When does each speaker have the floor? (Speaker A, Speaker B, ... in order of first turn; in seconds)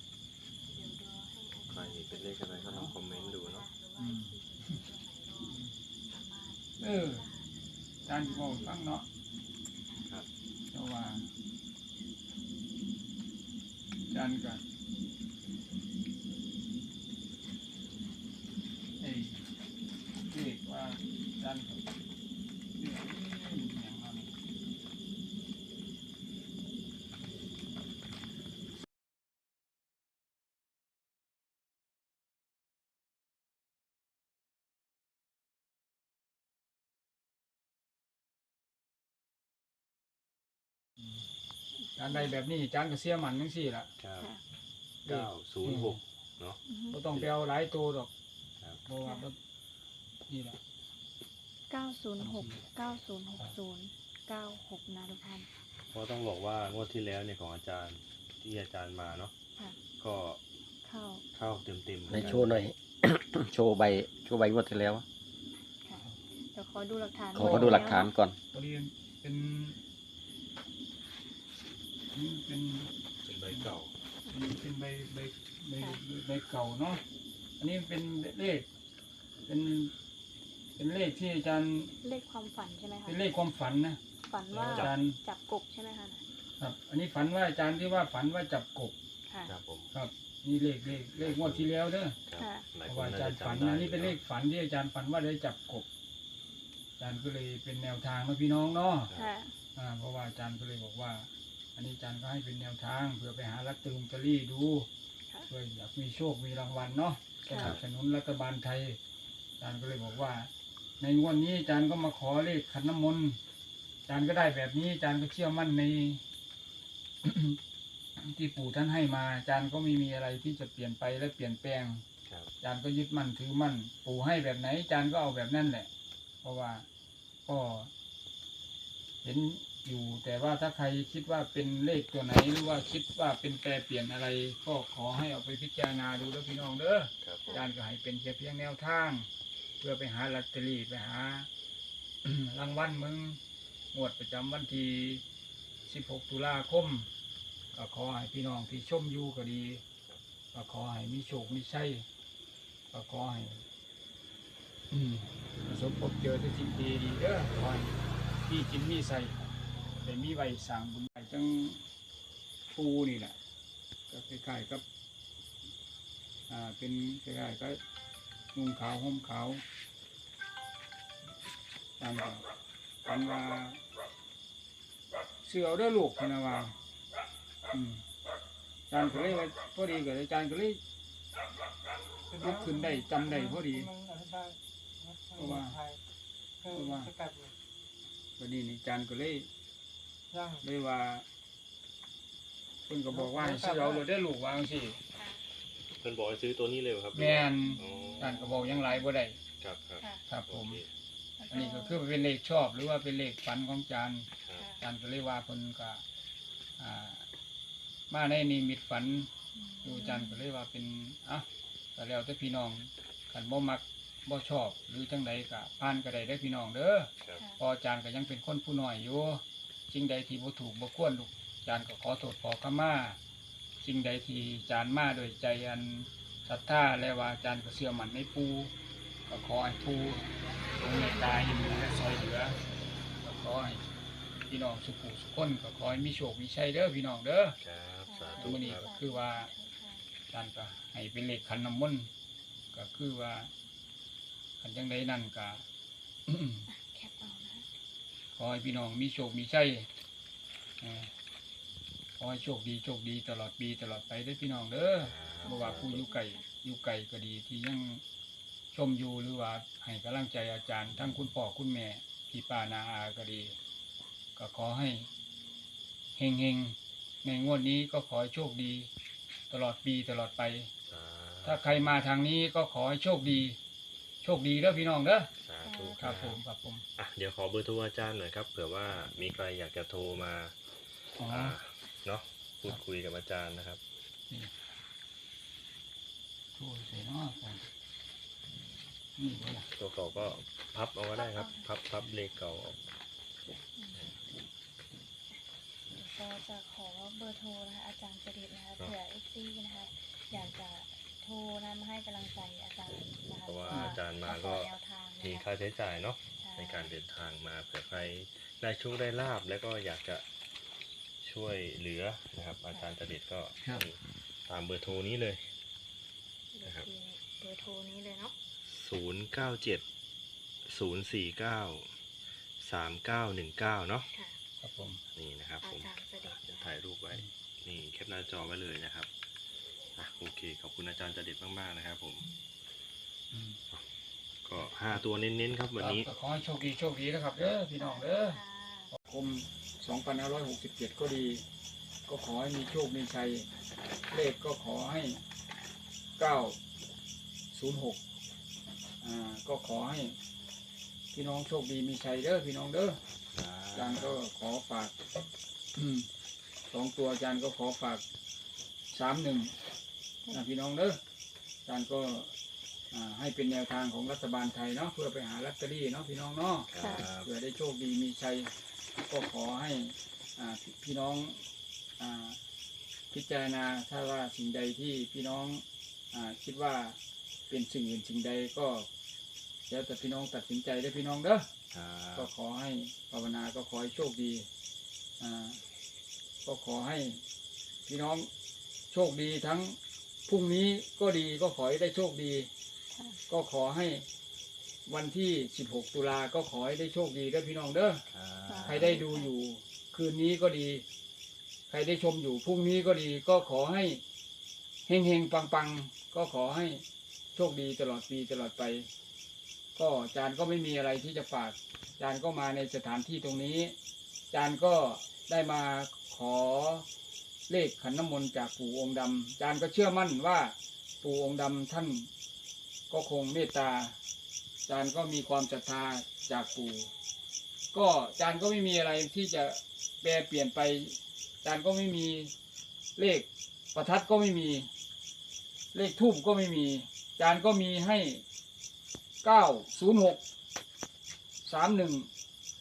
Speaker A: 0.7-7.5, 8.1-8.7, 46.7-47.0, 51.7-55.5, 60.9-61.2, 65.8-68.1, 82.0-83.2, 84.3-86.2, 89.3-89.5, 92.4-92.7, 99.1-99.6, 107.5-107.8, 195.1-195.4, 197.6-198.3, 201.4-202.0, 204.6-204.8, 209.5-210.4, 230.6-232.9, 238.1-240.1, 246.7-247.7, 255.4-256.5, 275.6-276.2, 291.1-291.7, 293.8-294.1, 295.9-305.5, 306.4-306.9, 312.7-313.0, 316.5-318.4, 324.1-324.4, 325.6-326.7, 337.8-338.9, 366.8-367.1, 392.9-393.2, 398.5-399.3
Speaker B: 1.7-3.7, 44.0-44.3, 45.1-46.6, 55.9-59.3, 60.0-60.4, 61.3-62.6, 73.2-73.9, 84.7-84.9, 89.5-89.9, 91.2-91.7, 92.3-94.2, 107.5-107.8, 122.3-122.5, 137.2-137.6, 196.0-198.8, 199.6-200.9, 237.6-238.8, 255.0-256.0, 270.9-271.9, 275.4-276.4, 277.0-280.6, 281.3-283.8, 289.7-292.8, 303.4-310.3, 311.2-315.5, 318.6-319.8, 320.6-321.9, 322.6-324.1, 325.1-329.1, 330.0-332.3, 334.4-336.1, 353.3-354.2, 366.7-367.3, 381.7-382.3, 398.1-399.0
Speaker C: 2.7-2.9, 4.0-4.8, 5.4-5.7, 6.8-7.3, 8.1-9.1, 10.7-11.3, 14.1-14.6, 19.0-19.5, 20.2-21.9, 22.8-24.4, 42.0-43.9, 45.0-46.0, 46.9-48.1, 48.9-49.4, 50.3-50.6, 52.2-52.7, 67.3-69.8, 72.1-72.9, 74.3-77.0, 77.6-78.7, 79.5-79.9, 80.8-81.9, 83.1-84.0, 84.5-85.2, 86.6-89.0, 89.9-92.2, 92.9-95.9, 97.0-99.1, 99.8-104.9, 105.5-109.0, 109.6-113.4, 114.1-116.2, 117.2-117.6, 118.2-122.0, 122.6-125.9, 126.4-126.9, 127.5-127.9, 129.2-139.3, 139.8-141.5, 142.2-143.4, 143.9-145.2, 145.9-147.1, 147.7-149.8, 150.5-152.1, 152.9-153.6, 154.9-159.5, 160.0-161.9, 162.7-163.4, 164.1-164.8, 166.5-167.8, 168.5-169.6, 172.0-172.5, 173.1-173.8, 175.4-176.8, 177.7-178.1, 178.9-180.8, 182.4-184.0, 185.3-185.8, 186.6-187.2, 188.4-189.5, 190.6-191.3, 192.9-195.0, 197.1-199.4, 200.3-200.8, 201.5-204.3, 204.8-206.0, 206.8-207.3, 208.1-209.3, 209.8-223.2, 223.8-228.7, 229.3-232.6, 233.2-233.8, 234.5-237.6, 238.4-239.5, 240.3-242.1, 242.7-243.5, 244.6-245.6, 246.3-246.7, 248.4-249.9, 250.8-251.1, 252.2-258.0, 258.7-263.6, 264.4-265.1, 266.2-268.9, 269.5-270.7, 271.4-273.6, 274.2-275.3, 276.0-276.9, 281.2-281.6, 286.6-287.7, 289.2-289.7, 303.7-304.0, 313.6-313.9, 324.6-325.0, 333.3-333.6, 335.8-341.4, 342.1-343.5, 344.1-345.2, 346.2-346.6, 347.5-348.0, 349.0-350.2, 351.1-353.0, 353.7-355.0, 355.7-356.1, 356.7-358.0, 358.9-359.5, 360.3-361.0, 361.7-362.3, 362.9-371.5, 372.0-372.4, 373.1-377.0, 377.5-378.9, 379.7-381.5, 382.2-384.5, 385.2-385.6, 386.4-387.2, 387.9-388.3, 388.9-392.5, 393.3-394.1, 394.9-398.1, 398.7-400.9, 401.7-404.0, 404.9-406.8, 407.4-408.9, 409.8-413.8, 414.3-416.9, 417.5-422.1, 422.9-424.0, 424.7-426.9, 427.7-432.3, 433.0-434.7, 435.7-438.2, 439.2-440.2, 441.4-442.1
Speaker D: 62.1-65.0, 67.3-68.4